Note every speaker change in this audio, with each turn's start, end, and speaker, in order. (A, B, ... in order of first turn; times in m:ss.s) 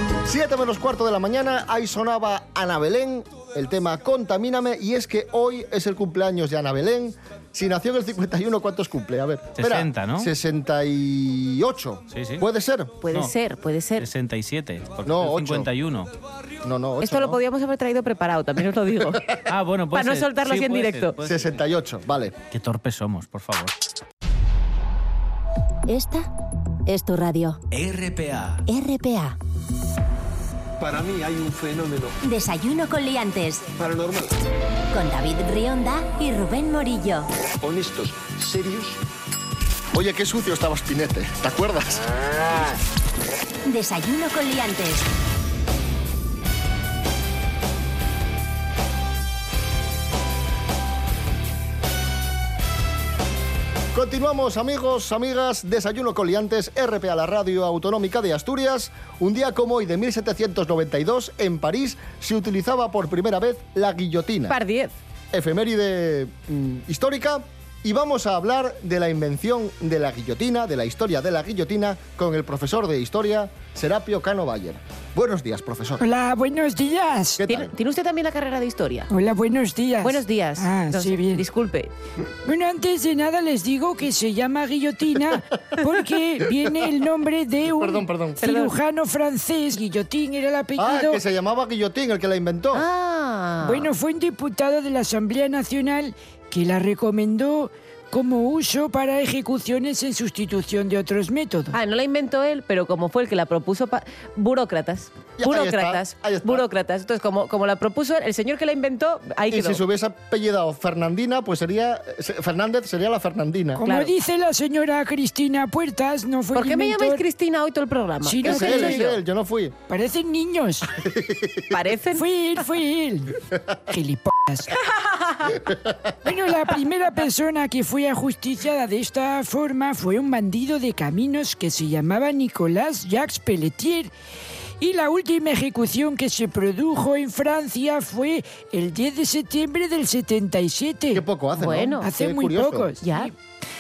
0:00.2-0:13.0 A
0:09.6-0:10.3 B
0:12.1-0:12.4 B
0:13.0-0:14.1 C
0:14.0-0:16.1 B
0:15.0-0:15.7 A
0:16.6-0:17.4 A
0:17.0-0:19.3 C
0:19.5-0:21.6 B
0:19.9-0:21.2 C
0:21.2-0:22.4 A
0:22.5-0:23.7 B
0:25.9-0:26.3 D
0:26.9-0:27.6 D
0:27.7-0:28.6 B
0:28.7-0:29.4 D
0:30.8-0:32.2 E
0:32.2-0:33.7 D
0:33.8-0:34.3 E
0:34.9-0:37.3 D
0:37.6-0:39.0 E
0:39.9-0:42.0 A
0:43.7-0:45.0 D
0:53.9-1:04.6 A
1:04.5-1:05.0 C
1:05.3-1:16.0 A
1:16.0-1:17.4 F
1:17.4-1:17.7 A
1:17.5-1:19.1 C
1:19.1-1:21.4 F
1:20.0-1:21.9 C
1:22.4-1:31.2 F
1:27.7-1:28.4 A
1:28.4-1:28.7 C
1:30.8-1:32.8 A
1:32.7-1:33.9 C
1:33.6-1:41.7 F
1:41.7-1:49.8 C
1:45.4-1:46.6 A
1:49.5-1:53.8 A
1:53.8-1:57.2 F
1:53.8-1:54.1 C
1:56.5-1:59.0 C
1:58.2-1:59.2 F
1:58.4-1:59.8 A
1:59.9-2:00.9 F
2:01.0-2:01.7 A
2:01.7-2:02.2 C
2:02.1-2:04.7 F
2:04.9-2:05.6 C
2:06.2-2:14.1 F
2:14.8-2:21.2 F
2:21.1-2:22.9 A
2:21.6-2:22.1 C
2:22.0-2:23.3 F
2:23.0-2:23.3 C